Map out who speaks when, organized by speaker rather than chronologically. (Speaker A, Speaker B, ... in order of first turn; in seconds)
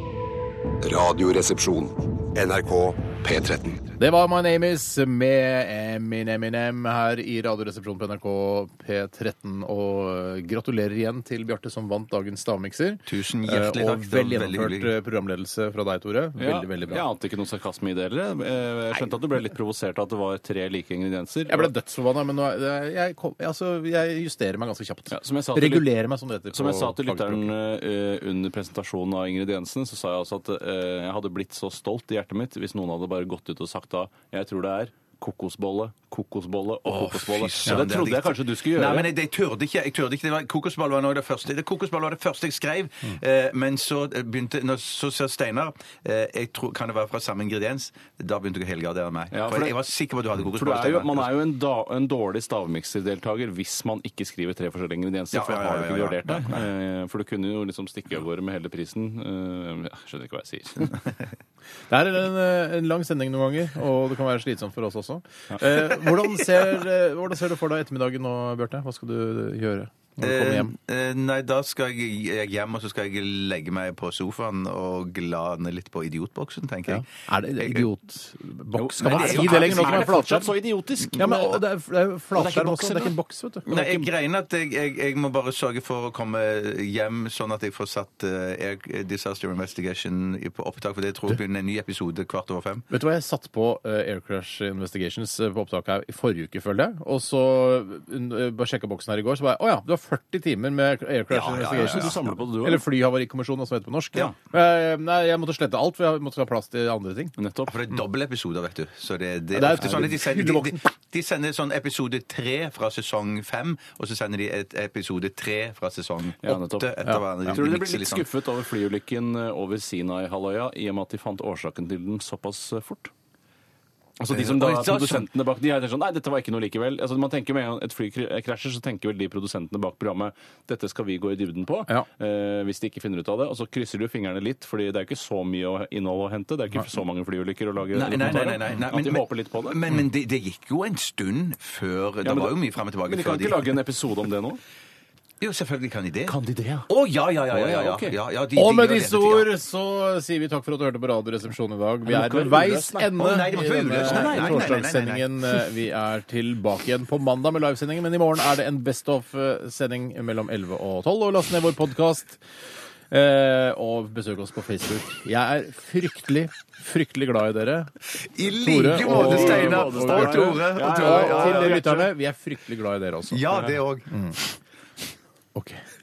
Speaker A: 0.8-3.9
Speaker B: 4.0-17.1, 21.5-27.5, 61.9-70.7, 76.9-80.5, 81.1-83.7, 92.9-107.3, 109.5-110.9, 117.1-117.6, 148.5-162.4, 163.1-167.9, 168.4-174.4, 175.6-175.8
Speaker C: 13.1-14.9, 36.9-51.4, 55.3-56.6, 70.2-77.9, 79.0-80.2, 83.7-92.9, 101.3-102.3, 107.7-118.3, 124.3-125.3, 137.9-143.6, 145.4-146.4, 146.9-149.5, 153.2-155.3, 168.3-172.0, 173.3-174.1
Speaker D: 16.4-21.7, 25.1-25.9, 26.5-39.1, 49.3-49.8, 50.5-61.0, 78.8-81.6, 82.3-83.1, 83.7-84.1, 101.7-102.8, 107.4-107.7, 116.4-123.1, 124.2-139.8, 142.2-144.6, 146.3-146.9, 147.5-148.2, 152.1-153.2, 153.9-154.8, 169.0-172.1